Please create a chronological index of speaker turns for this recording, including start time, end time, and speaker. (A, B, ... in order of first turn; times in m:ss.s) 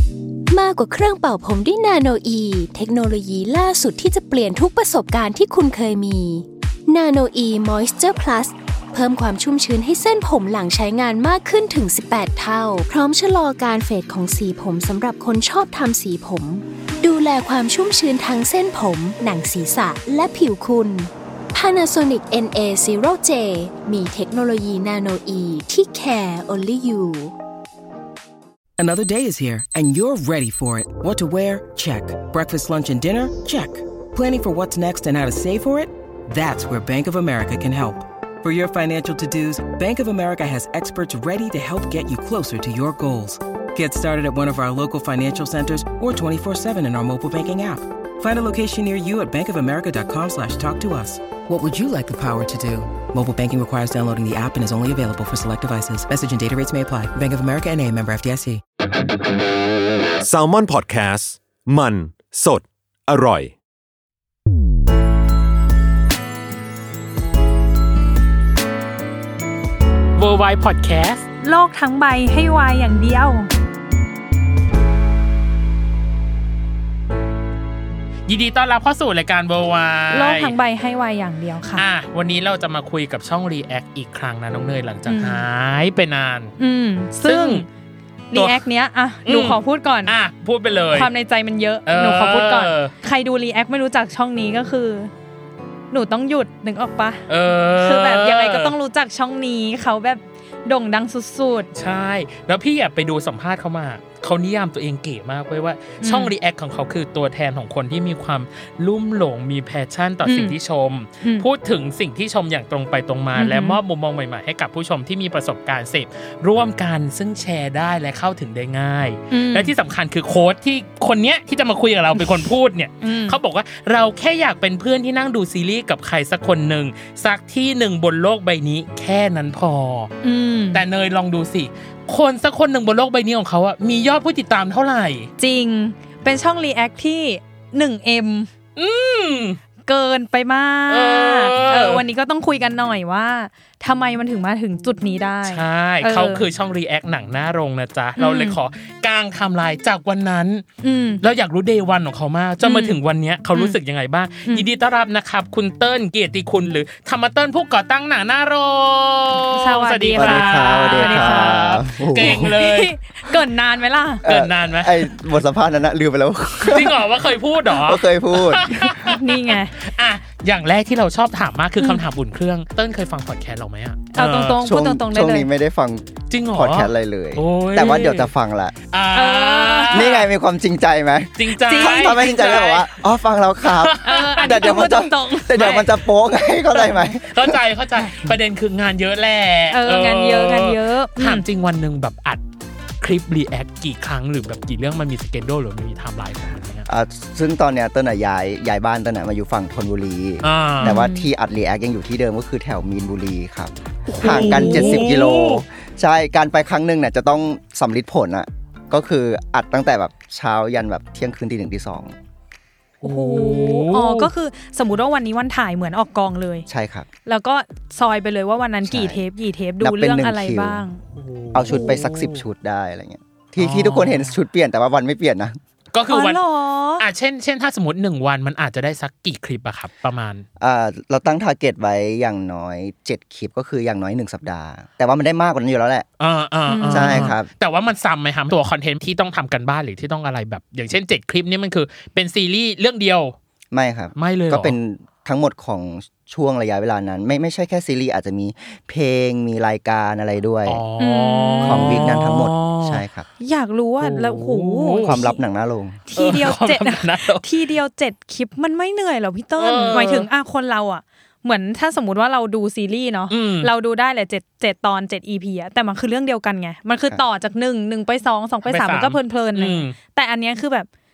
0:00.5-0:27.3 A
0:28.8-0:58.6 B
1:00.2-1:03.6 C
1:10.2-1:11.3 D
1:11.4-1:13.5 E
1:18.3-1:20.6 D
1:20.1-1:21.8 E
1:21.8-1:26.6 D
1:25.1-1:25.4 E
1:26.6-1:27.7 E
1:27.2-1:27.7 D
1:28.3-1:30.1 E
1:28.3-1:28.6 D
1:29.3-1:31.1 D
1:30.9-1:35.1 E
1:31.9-1:32.9 D
1:35.9-1:37.2 E
1:37.3-1:38.8 D
1:37.8-1:41.7 E
1:41.7-2:10.1 D
1:46.0-1:46.3 E
1:50.2-1:50.6 E
1:51.2-1:51.5 E
1:53.4-1:53.8 E
1:59.3-1:59.7 E
2:02.2-2:02.5 E
2:03.0-2:03.4 E
2:10.2-2:10.8 E
2:10.7-2:15.3 D
2:15.4-2:18.5 E
2:18.8-2:19.6 D
2:19.9-2:26.4 E
2:20.9-2:22.0 D
2:25.5-2:30.6 D
2:28.2-2:28.6 E
2:30.8-2:31.2 E
2:31.2-2:42.9 D
2:32.6-2:33.0 E
2:39.5-2:44.2 E
2:40.1-2:42.6 F
2:44.2-2:47.2 F
2:44.3-2:45.1 D
2:46.6-2:54.6 D
2:47.7-2:49.2 F
2:49.0-2:49.8 E
2:54.2-2:55.5 E
2:54.6-2:58.8 F
2:56.3-2:58.3 D
2:58.9-3:00.3 D
2:59.1-3:00.1 E
2:59.9-3:07.6 F
3:01.4-3:02.9 D
3:01.6-3:02.7 E
3:03.6-3:04.6 D
3:04.0-3:05.9 E
3:07.3-3:12.4 D
3:09.7-3:11.4 E
3:13.0-3:16.9 D
3:16.9-3:32.2 F
3:20.4-3:21.0 D
3:20.8-3:21.3 E
3:24.1-3:25.6 D
3:24.6-3:25.0 E
3:33.0-3:36.7 E
3:33.0-3:34.3 D
3:36.7-3:37.1 F
3:37.3-3:41.0 E
3:38.8-3:39.2 F
3:39.8-3:40.8 F
3:41.2-3:42.4 D
3:41.5-3:45.6 F
3:41.7-3:42.0 E
3:43.6-3:44.4 D
3:45.9-3:46.4 D
3:46.1-3:47.0 E
3:47.0-3:50.4 D
3:50.6-3:56.1 F
3:56.2-4:03.4 D
3:56.7-3:57.3 E
3:56.9-3:57.5 F
4:03.7-4:10.8 F
4:04.2-4:04.8 D
4:10.7-4:13.0 D
4:11.0-4:12.2 E
4:11.6-4:13.3 F
4:13.4-4:15.4 E
4:14.0-4:15.2 D
4:15.0-4:16.0 F
4:16.1-4:30.9 E
4:16.1-4:17.4 D
4:19.6-4:20.3 D
4:23.3-4:23.7 D
4:28.7-4:30.0 D